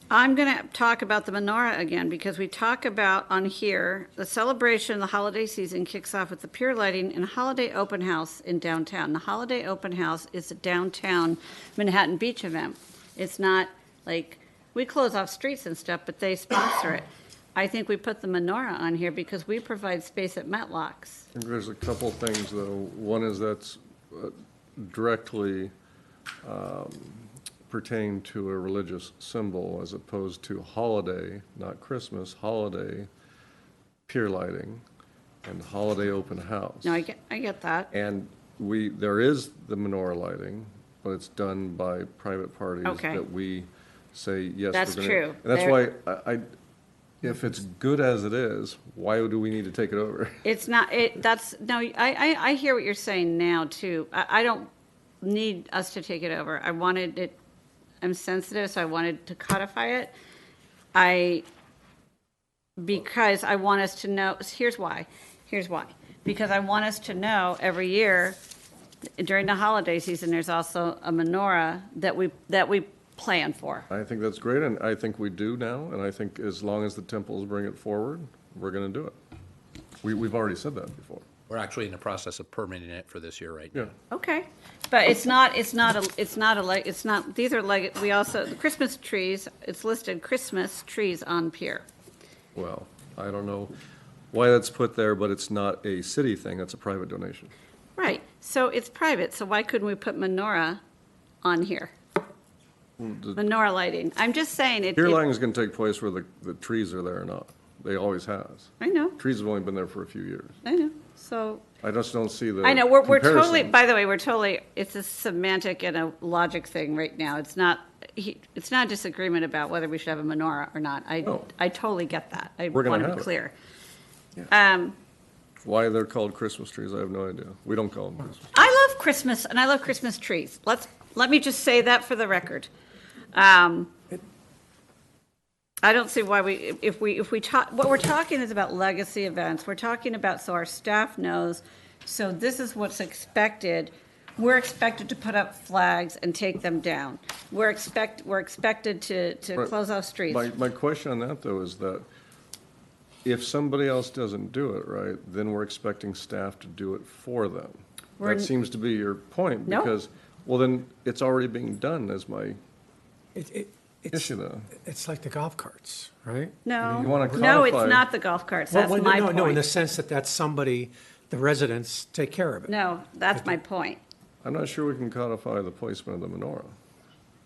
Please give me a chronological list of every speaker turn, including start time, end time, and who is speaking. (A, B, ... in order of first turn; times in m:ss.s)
0:00.1-0:21.3 A
0:21.3-0:25.7 B
0:26.4-0:33.1 B
0:34.1-0:34.8 B
0:35.4-0:37.0 B
0:36.8-0:37.9 A
0:37.9-0:46.4 B
0:42.8-0:43.2 A
0:44.7-0:45.8 A
0:47.2-0:50.4 B
0:50.4-0:54.7 A
0:55.2-0:57.4 A
0:58.0-1:00.1 A
1:00.9-1:01.4 A
1:02.8-1:08.4 A
1:09.2-1:13.9 A
1:13.9-1:19.2 B
1:20.0-1:21.2 B
1:21.5-1:23.8 C
1:24.1-1:31.8 A
1:32.5-1:33.7 B
1:34.3-1:37.5 B
1:38.0-1:40.8 A
1:41.4-1:41.9 A
1:43.0-1:43.4 B
1:43.4-1:45.2 A
1:45.0-1:50.6 B
1:48.8-1:49.2 A
1:50.6-1:51.6 A
1:51.8-1:53.7 B
1:52.6-2:03.5 A
2:02.7-2:03.3 B
2:04.5-2:05.0 A
2:05.6-2:08.5 B
2:08.5-2:12.7 A
2:13.3-2:14.1 A
2:15.8-2:30.5 A
2:30.2-2:32.0 B
2:33.2-2:42.6 B
2:38.2-2:38.5 A
2:39.6-2:39.9 A
2:43.3-2:47.6 D
2:44.1-2:44.7 B
2:46.6-2:49.6 A
2:47.0-2:48.1 B
2:48.7-2:52.7 D
2:52.7-2:54.0 A
2:54.4-2:56.7 B